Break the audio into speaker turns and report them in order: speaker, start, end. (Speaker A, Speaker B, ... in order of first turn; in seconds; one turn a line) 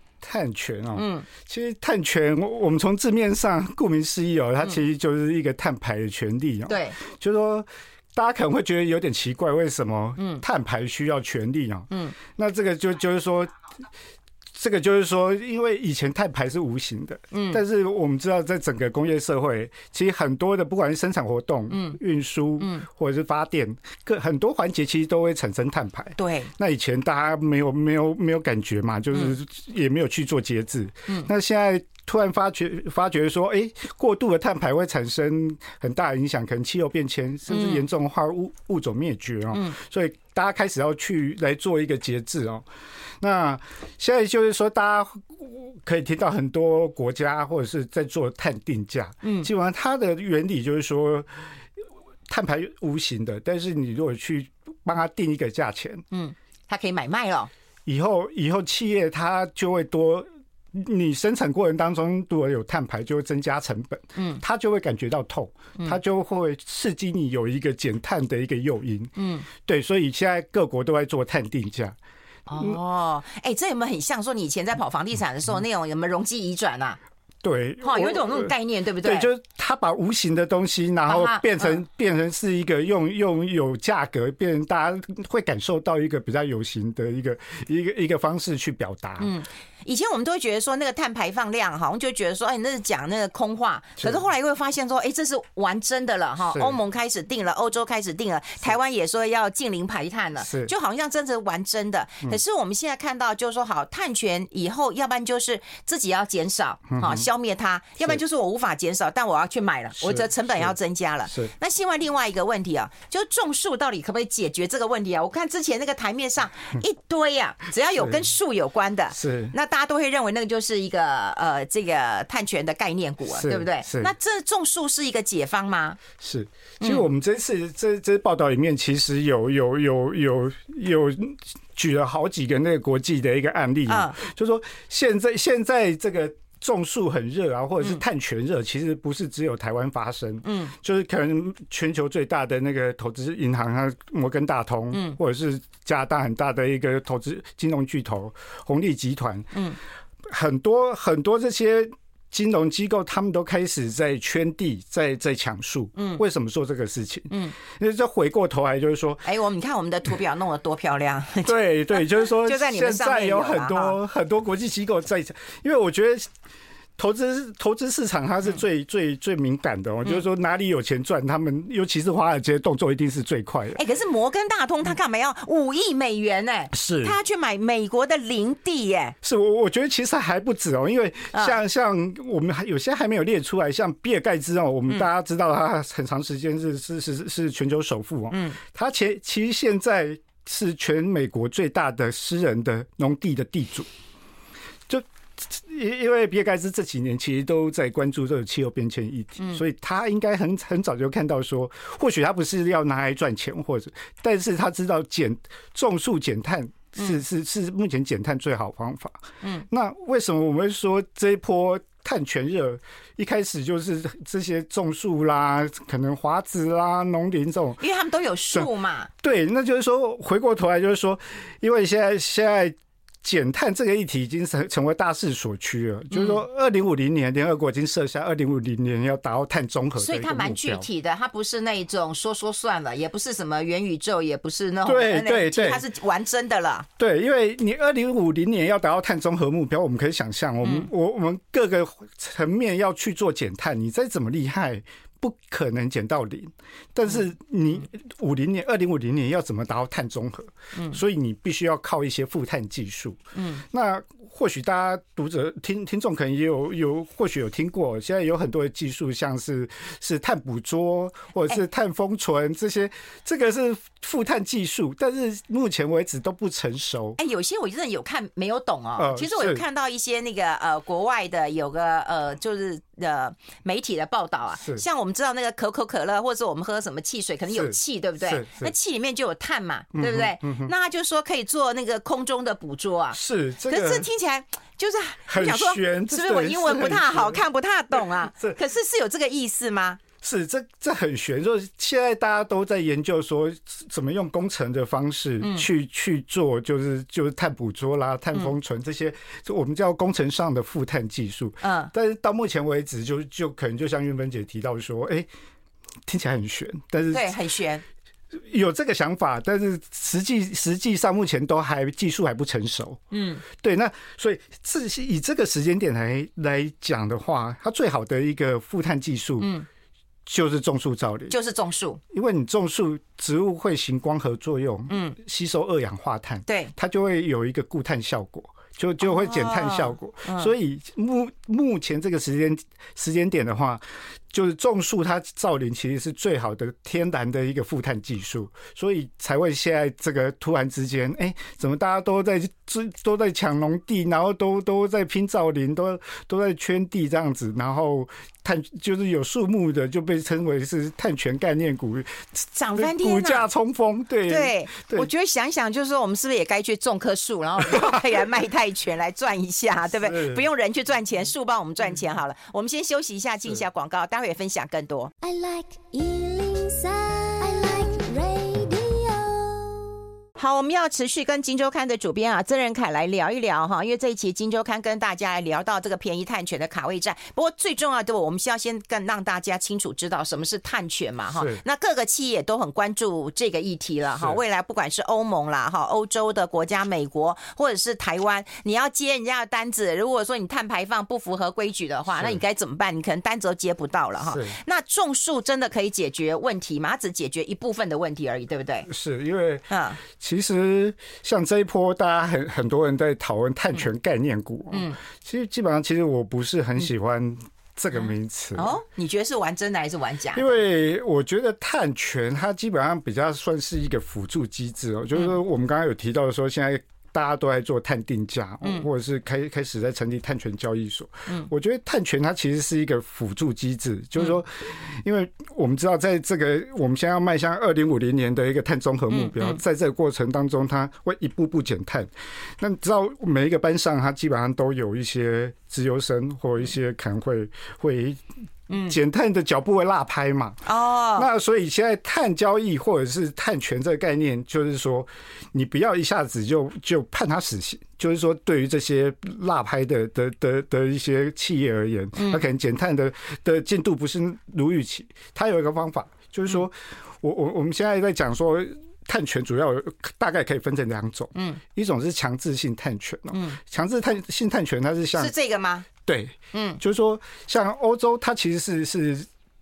Speaker A: 0.2-13.5
Speaker B: 0.9-1.2
Speaker B: 6.7-7.0
Speaker B: 10.2-10.4
Speaker B: 11.9-12.2
Speaker A: 14.5-42.7
Speaker B: 17.3-17.6
Speaker B: 21.7-22.0
Speaker B: 22.6-22.9
Speaker B: 26.2-26.5
Speaker B: 37.5-37.8
Speaker B: 39.5-39.8
Speaker A: 43.2-51.3
Speaker B: 49.2-49.5
Speaker A: 52.3-56.0
Speaker B: 56.1-57.5
Speaker A: 57.9-72.0
Speaker B: 64.1-64.4
Speaker B: 69.2-69.5
Speaker B: 72.5-77.0
Speaker A: 72.5-72.8
Speaker A: 77.4-89.3
Speaker B: 77.8-79.3
Speaker B: 81.1-81.8
Speaker B: 89.2-126.0
Speaker A: 94.0-94.2
Speaker A: 96.5-96.8
Speaker A: 100.4-100.7
Speaker A: 106.9-107.3
Speaker A: 110.0-110.7
Speaker A: 118.0-118.3
Speaker A: 119.1-119.5
Speaker A: 123.3-124.1
Speaker A: 126.2-149.6
Speaker B: 126.8-127.1
Speaker B: 133.9-134.2
Speaker B: 140.4-140.7
Speaker B: 144.9-145.2
Speaker B: 149.5-149.8
Speaker A: 150.2-159.3
Speaker B: 155.9-156.2
Speaker B: 157.3-157.6
Speaker B: 159.2-164.0
Speaker A: 161.4-166.3
Speaker A: 167.0-173.8
Speaker B: 173.7-179.1
Speaker A: 176.7-177.2
Speaker A: 179.2-193.9
Speaker B: 188.3-188.6
Speaker A: 194.9-217.8
Speaker B: 217.8-219.1
Speaker A: 219.2-230.9
Speaker B: 226.1-226.4
Speaker B: 230.0-236.9
Speaker A: 234.8-235.8
Speaker A: 237.0-267.2
Speaker B: 240.6-240.9
Speaker B: 250.7-251.0
Speaker B: 253.3-253.6
Speaker B: 267.2-290.0
Speaker A: 269.0-269.6
Speaker A: 277.5-278.7
Speaker A: 279.9-280.7
Speaker A: 283.1-284.1
Speaker A: 285.3-288.6
Speaker A: 290.2-305.3
Speaker B: 295.4-295.6
Speaker B: 301.6-301.9
Speaker A: 306.1-307.3
Speaker B: 307.1-307.8
Speaker A: 308.3-319.5
Speaker B: 313.1-313.4
Speaker B: 319.4-319.7
Speaker A: 320.2-321.3
Speaker B: 321.3-322.0
Speaker A: 322.1-355.1
Speaker B: 324.9-325.2
Speaker B: 326.4-326.7
Speaker B: 329.0-330.5
Speaker B: 352.5-353.5
Speaker B: 354.3-365.1
Speaker A: 357.7-358.0
Speaker A: 359.9-360.4
Speaker C: 365.2-369.9
Speaker B: 370.4-398.9
Speaker A: 381.3-381.6
Speaker A: 384.1-384.4
Speaker A: 392.1-392.4
Speaker A: 394.2-394.6
Speaker A: 398.9-408.8
Speaker B: 399.7-400.0
Speaker B: 404.7-405.0
Speaker B: 408.5-410.6
Speaker A: 410.3-465.3
Speaker B: 429.1-429.6
Speaker B: 438.7-439.0
Speaker B: 440.6-441.3
Speaker B: 452.2-452.4
Speaker B: 461.3-461.6
Speaker B: 463.3-463.6
Speaker B: 465.1-465.9
Speaker A: 466.0-469.3
Speaker B: 466.5-466.8